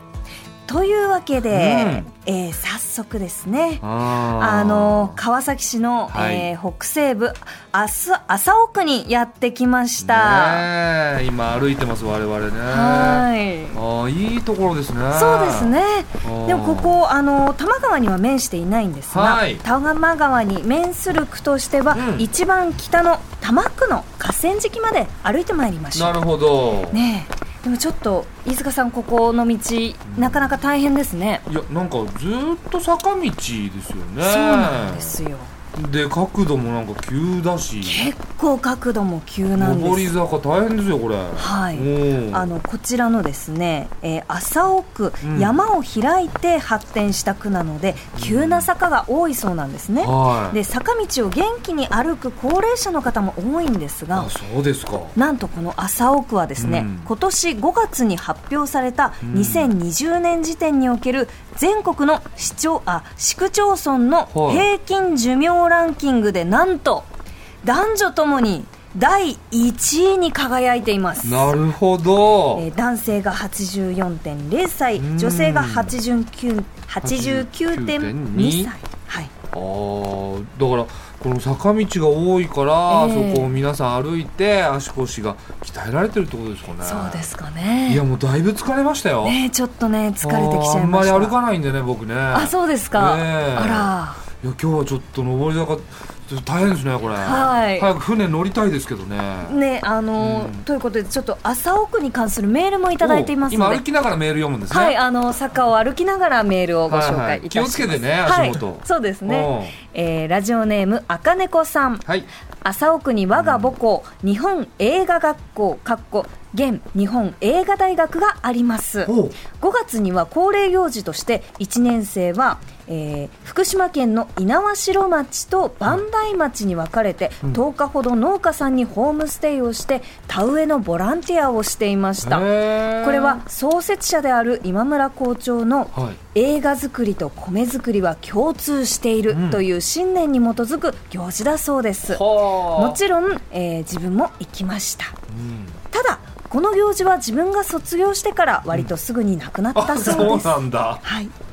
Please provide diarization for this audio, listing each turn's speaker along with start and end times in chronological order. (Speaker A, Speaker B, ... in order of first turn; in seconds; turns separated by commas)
Speaker A: 0.7-10.7, Speaker B: 1.5-2.1, Speaker B: 3.8-5.2, Speaker B: 6.1-6.5, Speaker B: 10.0-17.0, Speaker A: 12.7-13.8, Speaker A: 15.1-26.2, Speaker B: 19.1-19.6, Speaker B: 21.9-22.3, Speaker B: 25.9-27.0, Speaker A: 26.9-31.4, Speaker B: 30.1-30.5, Speaker B: 31.4-35.2, Speaker A: 34.2-35.5, Speaker B: 35.7-38.1, Speaker A: 37.8-40.1, Speaker B: 39.5-42.5, Speaker A: 41.4-54.3, Speaker B: 45.2-45.5, Speaker B: 48.1-48.7, Speaker B: 50.0-50.6, Speaker B: 54.1-55.1, Speaker A: 55.1-67.1, Speaker B: 56.6-57.1, Speaker B: 59.2-59.7, Speaker B: 64.3-64.7, Speaker A: 67.6-71.5, Speaker B: 71.2-72.6, Speaker A: 72.5-79.3, Speaker B: 75.0-76.0, Speaker B: 77.0-78.7, Speaker B: 79.5-87.2, Speaker A: 82.9-83.5, Speaker A: 86.8-88.0, Speaker B: 87.9-89.4, Speaker A: 89.2-91.3, Speaker B: 90.2-99.6, Speaker A: 92.3-94.2, Speaker A: 97.2-97.9, Speaker A: 99.4-103.8, Speaker B: 100.2-100.6, Speaker B: 103.0-105.0, Speaker A: 104.7-112.0, Speaker B: 106.9-109.7, Speaker A: 112.6-132.4, Speaker B: 113.3-113.7, Speaker B: 119.0-119.4, Speaker B: 132.2-133.4, Speaker A: 133.0-145.1, Speaker B: 135.9-136.2, Speaker B: 139.3-139.6, Speaker B: 142.1-143.0, Speaker B: 145.3-145.8, Speaker A: 145.9-151.3, Speaker B: 149.7-151.0